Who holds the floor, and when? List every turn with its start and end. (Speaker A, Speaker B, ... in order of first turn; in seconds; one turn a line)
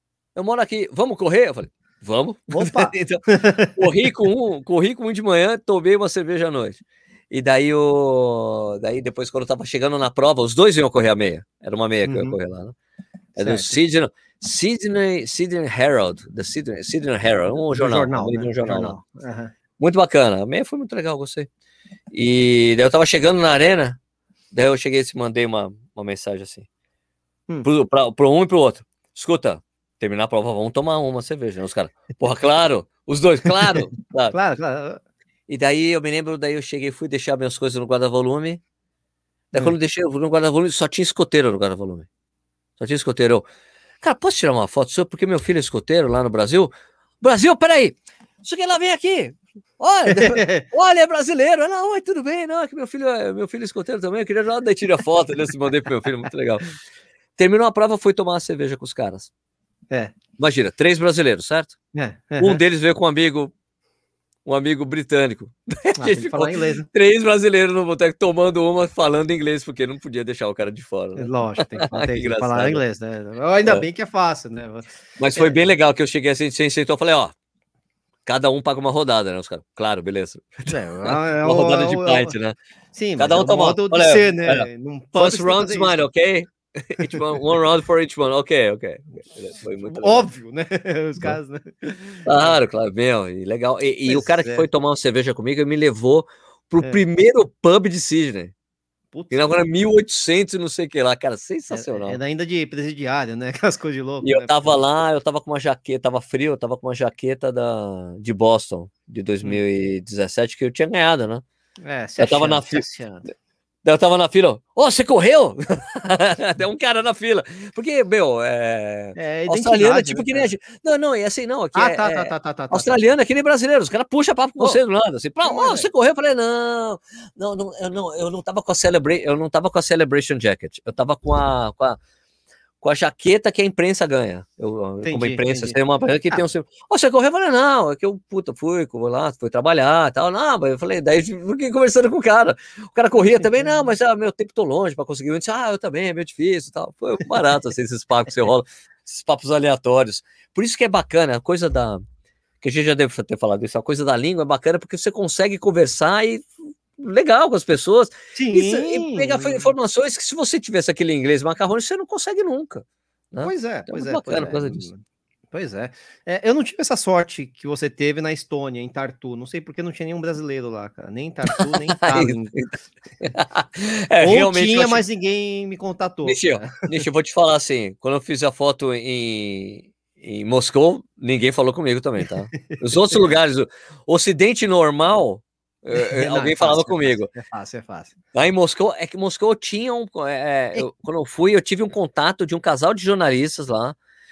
Speaker A: 0.3-3.2
Speaker B: 2.5-3.8
Speaker A: 3.8-6.8
Speaker A: 7.3-12.7
Speaker B: 12.0-12.3
Speaker A: 13.3-19.0
Speaker B: 13.4-13.8
Speaker B: 17.7-19.5
Speaker A: 19.8-21.5
Speaker A: 22.1-24.0
Speaker A: 24.5-26.7
Speaker A: 27.6-34.4
Speaker B: 34.3-35.0
Speaker A: 35.5-38.6
Speaker A: 39.5-42.1
Speaker A: 42.8-43.5
Speaker A: 44.0-56.7
Speaker B: 50.1-50.6
Speaker A: 57.4-59.3
Speaker A: 60.4-61.8
Speaker B: 61.9-62.6
Speaker A: 62.4-63.5
Speaker A: 64.5-72.8
Speaker B: 66.0-66.8
Speaker B: 71.2-75.6
Speaker A: 75.2-77.3
Speaker A: 78.2-82.5
Speaker B: 80.7-82.3
Speaker B: 82.9-86.0
Speaker A: 83.2-90.3
Speaker B: 89.8-92.5
Speaker A: 92.2-98.5
Speaker B: 94.1-94.7
Speaker B: 99.1-99.6
Speaker A: 99.3-102.2
Speaker B: 101.7-104.7
Speaker A: 104.2-111.4
Speaker B: 111.8-113.2
Speaker A: 112.2-112.8
Speaker A: 113.8-132.0
Speaker B: 119.2-120.5
Speaker B: 121.7-123.0
Speaker B: 125.4-125.9
Speaker A: 132.8-152.0
Speaker B: 135.0-135.8
Speaker B: 143.2-143.7
Speaker A: 152.6-164.9
Speaker B: 158.3-159.7
Speaker B: 163.4-165.0
Speaker B: 165.5-172.6
Speaker A: 171.5-175.0
Speaker B: 174.2-176.7
Speaker A: 176.2-187.3
Speaker B: 182.5-183.2
Speaker B: 185.9-188.2
Speaker A: 188.3-193.9